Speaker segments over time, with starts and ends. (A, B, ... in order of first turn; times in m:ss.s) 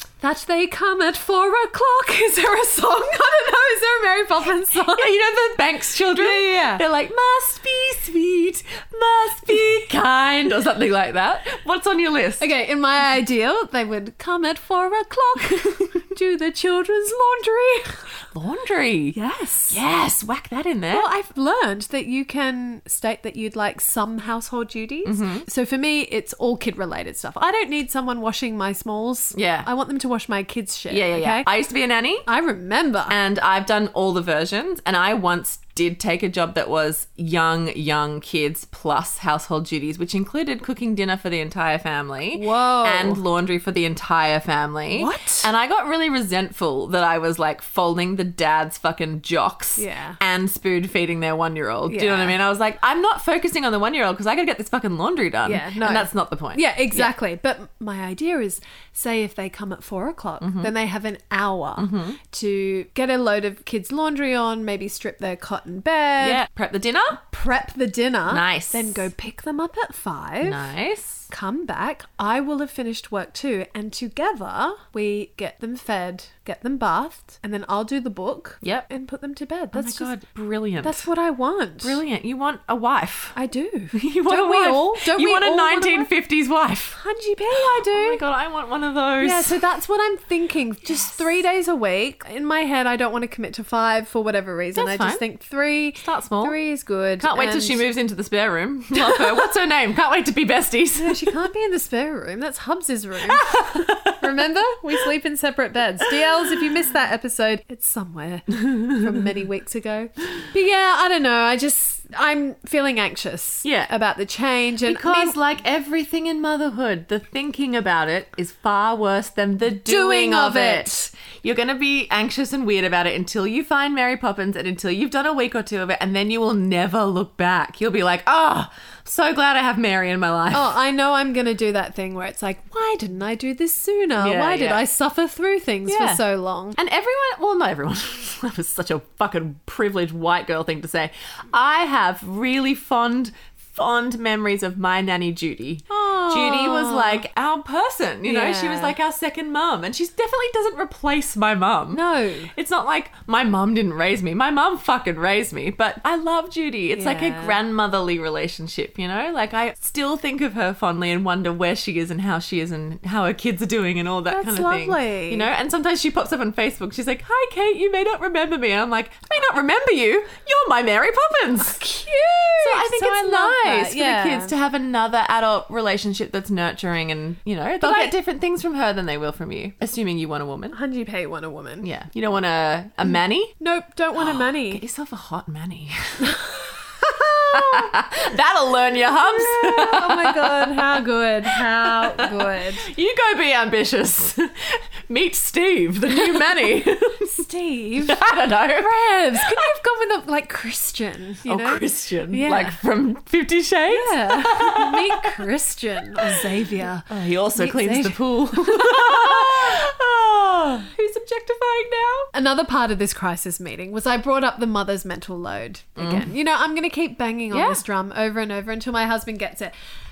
0:00.2-0:05.1 A
0:04.7-0:12.4 B
0:06.1-0:06.8 A
0:12.4-0:18.0 A
0:18.3-0:19.2 B
0:19.1-0:19.8 A
0:19.7-0:21.1 B
0:20.9-0:31.5 A
0:25.0-0:25.4 B
0:29.3-0:29.7 B
0:30.9-0:32.3 B
0:32.3-0:33.1 A
0:33.1-0:57.1 B
0:42.3-0:43.2 A
0:44.9-0:45.5 A
0:49.8-0:50.2 A
0:51.9-0:52.4 A
0:55.4-1:06.4 A
1:00.4-1:00.7 B
1:01.8-1:02.2 B
1:06.2-1:07.2 B
1:07.2-1:10.6 A
1:08.3-1:09.0 B
1:10.4-1:11.3 B
1:11.3-1:20.1 A
1:18.6-1:18.9 B
1:19.7-1:21.0 B
1:20.8-1:22.0 A
1:21.8-1:23.4 B
1:23.3-1:26.1 A
1:23.9-1:27.0 B
1:26.9-1:28.2 A
1:27.6-1:29.6 B
1:29.2-1:37.8 A
1:34.8-1:35.2 B
1:36.0-1:36.6 B
1:37.2-1:41.3 B
1:39.0-1:39.4 A
1:41.0-1:55.4 A
1:43.3-1:44.2 B
1:53.6-1:53.9 B
1:54.8-2:10.7 B
1:59.7-2:01.1 A
2:10.5-2:16.8 A
2:14.2-2:14.8 B
2:15.9-2:16.2 B
2:16.8-2:32.0 B
2:25.9-2:27.2 A
2:28.2-2:29.0 A
2:31.9-2:32.5 A
2:32.5-2:51.8 B
2:36.9-2:37.6 A
2:44.3-2:45.5 A
2:51.6-2:54.5 A
2:52.6-3:00.8 B
2:57.8-2:58.1 A
3:00.7-3:01.9 A
3:01.8-3:03.5 B
3:03.6-3:04.8 A
3:04.1-3:06.4 B
3:06.2-3:08.0 A
3:07.5-3:17.4 B
3:08.9-3:12.9 A
3:17.4-3:18.2 A
3:18.0-3:18.9 B
3:18.7-3:22.8 A
3:21.4-3:25.4 B
3:23.9-3:29.9 A
3:26.2-3:26.4 B
3:27.1-3:30.9 B
3:30.9-3:31.6 A
3:31.5-3:32.3 B
3:32.3-3:39.7 A
3:36.0-3:36.3 B
3:37.5-3:37.8 B